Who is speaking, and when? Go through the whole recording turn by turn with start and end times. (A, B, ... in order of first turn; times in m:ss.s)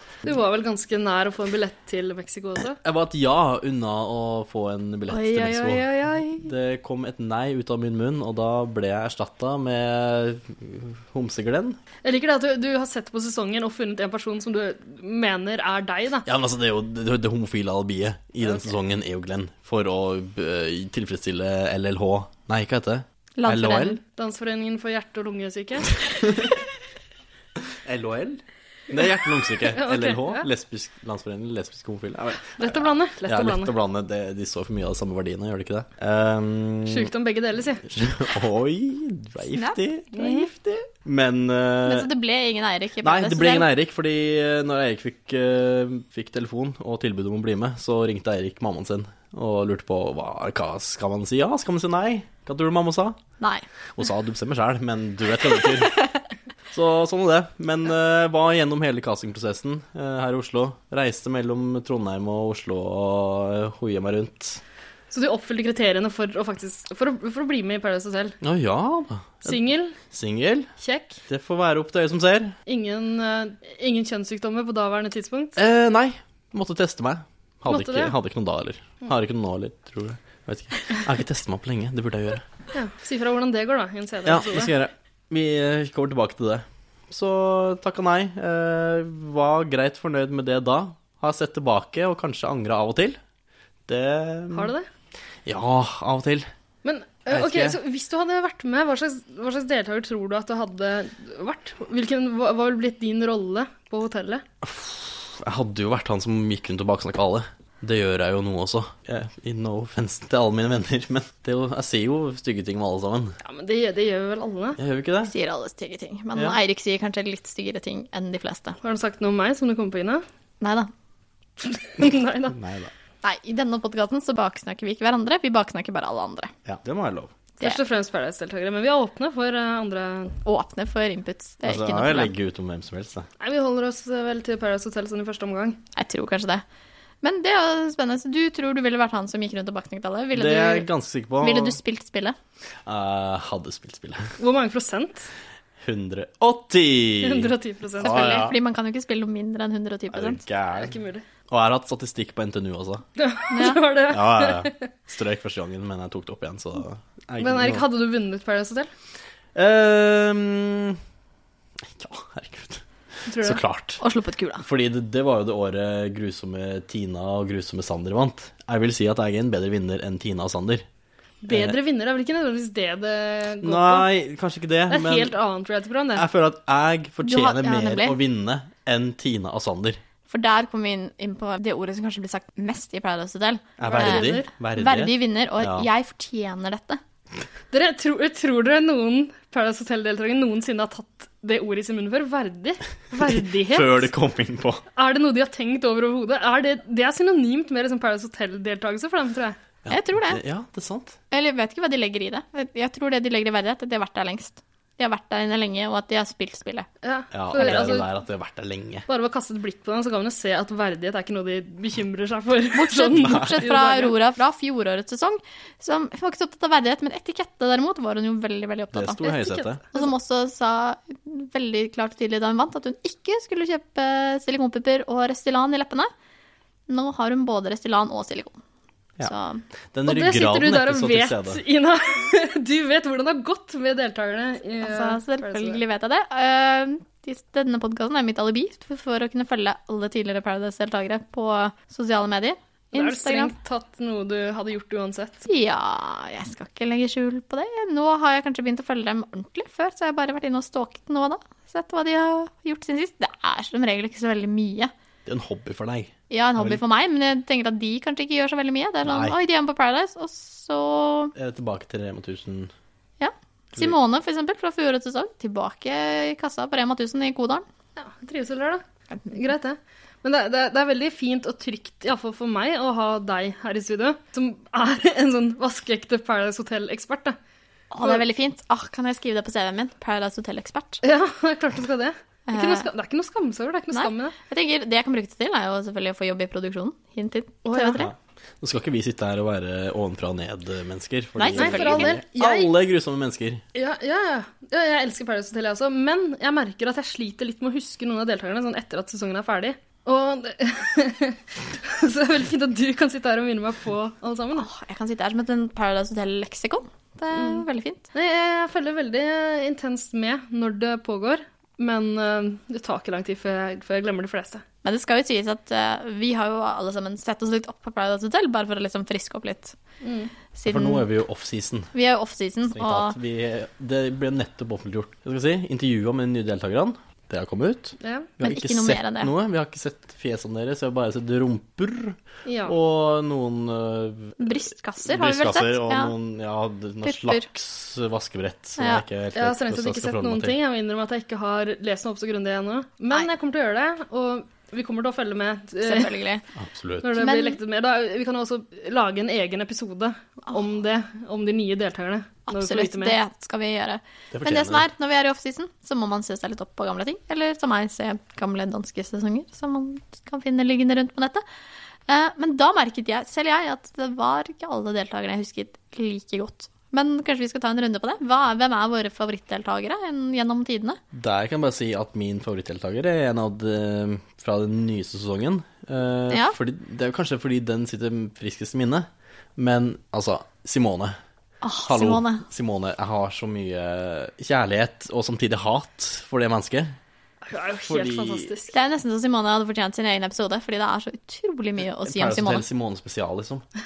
0:00.2-0:02.8 A
0:02.8-0:11.8 B
0:05.1-0:06.5 C
0:12.0-0:16.3 A
0:16.3-0:24.0 B
0:23.4-0:24.0 C
0:24.2-0:26.0 A
0:27.8-0:37.1 B
0:29.7-0:30.5 A
0:32.6-0:33.7 A
0:36.9-0:37.8 A
0:37.9-0:42.1 B
0:39.5-0:39.8 C
0:40.1-0:40.5 A
0:41.8-0:43.7 C
0:43.0-0:53.2 B
0:53.4-0:53.6 C
0:54.0-0:56.0 B
0:56.7-1:04.6 B
1:05.1-1:08.4 A
1:08.4-1:10.7 B
1:09.4-1:10.0 A
1:10.8-1:11.2 A
1:11.3-1:12.6 B
1:12.7-1:15.6 A
1:15.6-1:22.4 B
1:17.7-1:18.2 A
1:22.7-1:24.7 A
1:24.2-1:33.2 B
1:33.9-1:34.8 B
1:34.5-1:34.9 A
1:35.5-1:36.5 B
1:36.8-1:44.4 A
1:37.3-1:37.8 B
1:44.6-1:53.4 B
1:53.4-1:54.8 A
1:54.8-1:55.3 B
1:55.2-1:58.8 C
1:58.8-2:00.2 A
2:00.6-2:00.9 C
2:01.6-2:02.6 A
2:02.5-2:02.9 B
2:03.2-2:06.5 C
2:06.7-2:07.3 B
2:07.6-2:10.4 A
2:10.4-2:12.3 C
2:11.6-2:13.3 B
2:13.4-2:15.8 A
2:16.0-2:16.6 C
2:17.2-2:20.9 C
2:20.3-2:21.8 B
2:21.4-2:22.4 C
2:22.9-2:24.3 B
2:24.4-2:25.3 A
2:25.8-2:28.6 B
2:27.2-2:28.5 A
2:28.0-2:30.4 C
2:30.1-2:31.0 B
2:30.8-2:31.2 A
2:31.5-2:33.0 B
2:33.2-2:34.8 A
2:33.5-2:33.8 C
2:34.1-2:37.8 B
2:37.4-2:38.9 A
2:39.6-2:41.0 B
2:41.9-2:42.8 B
2:43.3-2:43.6 A
2:43.4-2:44.0 B
2:44.0-2:44.6 C
2:44.6-2:50.8 B
2:51.4-2:54.1 A
2:51.5-2:51.8 B
2:53.6-2:55.4 B
2:54.9-2:56.2 A
2:56.2-3:00.0 B
2:57.2-2:58.2 C
3:00.3-3:07.0 C
3:03.8-3:05.9 B
3:03.8-3:04.5 A
3:07.7-3:14.1 A
3:13.2-3:14.8 B
3:15.0-3:19.6 A
3:19.8-3:21.2 B
3:19.9-3:20.4 C
3:21.3-3:26.9 C
3:27.0-3:28.1 A
3:27.3-3:29.1 B
3:27.6-3:27.9 C
3:29.1-3:34.2 A
3:32.8-3:39.3 C
3:33.2-3:33.5 B
3:38.9-3:39.8 B
3:39.2-3:40.1 A
3:39.9-3:46.1 C
3:46.9-3:48.6 C
3:49.2-3:49.6 C
3:49.9-3:51.6 B
3:50.1-3:55.8 A
3:54.8-4:03.5 C
4:02.9-4:05.5 A
4:05.5-4:14.9 C
4:15.3-4:16.8 B
4:16.3-4:21.3 C
4:19.0-4:19.4 B
4:21.4-4:22.7 B
4:23.2-4:27.7 C
4:28.0-4:37.4 A
4:37.9-4:41.0 C
4:41.0-4:44.3 A
4:42.5-4:42.9 C
4:43.9-4:48.1 C
4:47.6-4:48.1 A
4:48.0-4:53.6 B
4:51.4-4:52.2 C
4:51.5-4:52.7 A
4:53.8-5:04.7 A
5:04.6-5:08.0 C
5:07.4-5:14.6 A
5:14.8-5:19.8 C
5:20.0-5:20.3 A
5:20.6-5:21.0 C
5:20.7-5:21.9 B
5:21.9-5:23.2 C
5:22.7-5:40.6 B
5:28.0-5:28.3 A
5:28.4-5:29.3 C
5:32.5-5:32.8 A
5:34.4-5:36.1 C
5:37.0-5:37.5 C
5:38.8-5:39.0 C
5:39.4-5:46.2 A
5:45.8-5:46.4 C
5:46.6-5:47.2 B
5:47.0-5:53.2 A
5:47.2-5:47.6 C
5:52.5-6:01.4 C
5:54.3-5:54.8 B
6:02.1-6:11.0 C
6:11.1-6:21.2 B
6:16.3-6:16.6 C
6:21.6-6:22.4 C
6:21.9-6:27.0 B
6:27.5-6:28.8 A
6:27.8-6:28.5 B
6:28.7-6:32.6 C
6:32.0-6:33.6 B